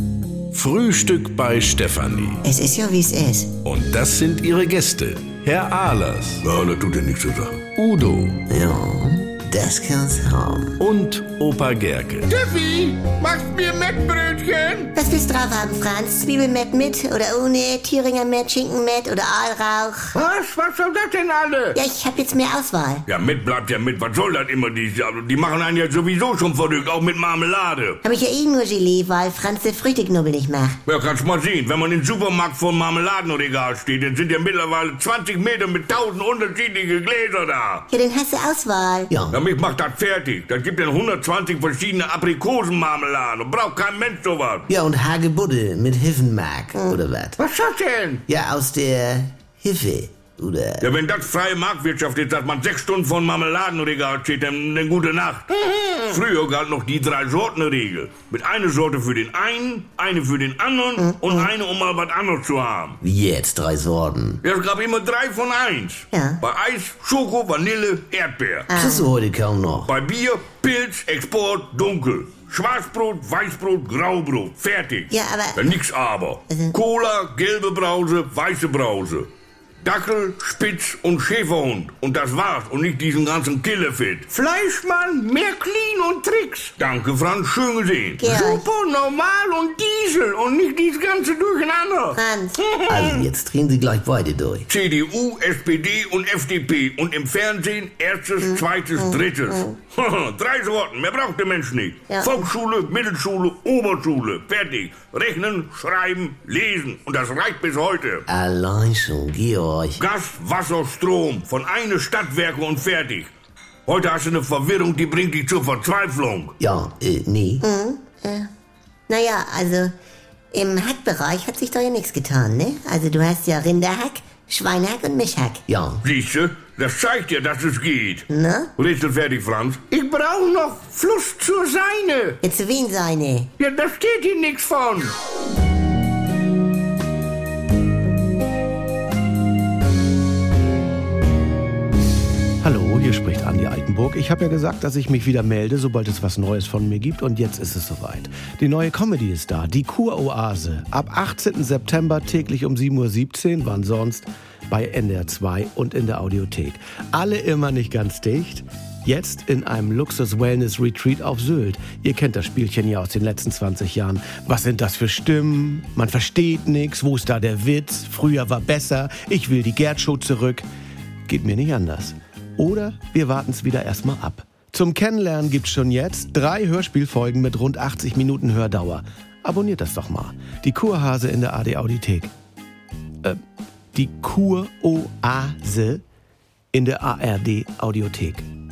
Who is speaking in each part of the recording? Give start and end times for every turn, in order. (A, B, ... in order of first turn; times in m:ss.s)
0:00.5-0:02.4 A
0:02.4-0:03.5 B
0:03.6-0:06.4 A
0:06.4-0:07.7 C
0:07.8-0:08.4 A
0:08.5-0:10.8 D
0:10.8-0:12.4 A
0:12.3-0:14.9 C
0:15.0-0:20.2 B
0:20.2-0:21.8 C
0:21.8-0:23.0 B
0:23.1-0:28.0 C
0:28.0-0:30.8 B
0:30.9-0:37.8 C
0:37.9-0:39.1 B
0:39.1-0:39.4 D
0:39.3-0:44.7 C
0:44.7-0:47.4 D
0:47.4-0:48.2 C
0:48.3-0:50.9 D
0:50.8-1:03.0 C
1:01.0-1:01.5 B
1:03.0-1:04.4 D
1:04.4-1:08.7 C
1:06.1-1:06.4 B
1:08.7-1:09.1 B
1:08.8-1:09.9 D
1:09.8-1:19.3 C
1:15.1-1:15.8 B
1:16.5-1:16.8 B
1:19.8-1:33.2 C
1:28.2-1:28.7 B
1:32.2-1:32.6 B
1:32.9-1:34.7 D
1:34.7-1:48.2 C
1:38.4-1:39.8 B
1:42.1-1:42.4 B
1:48.3-1:50.0 D
1:50.0-1:53.3 C
1:53.9-1:56.6 C
1:56.6-1:57.6 D
1:57.6-1:58.5 B
1:59.1-1:59.9 B
2:00.5-2:05.6 B
2:05.7-2:06.0 D
2:06.0-2:08.2 C
2:08.3-2:08.7 B
2:08.8-2:12.4 C
2:12.4-2:13.5 B
2:13.6-2:15.1 C
2:22.6-2:50.6 E
2:51.3-3:02.3 E
3:03.9-3:06.0 E
3:06.7-3:08.5 E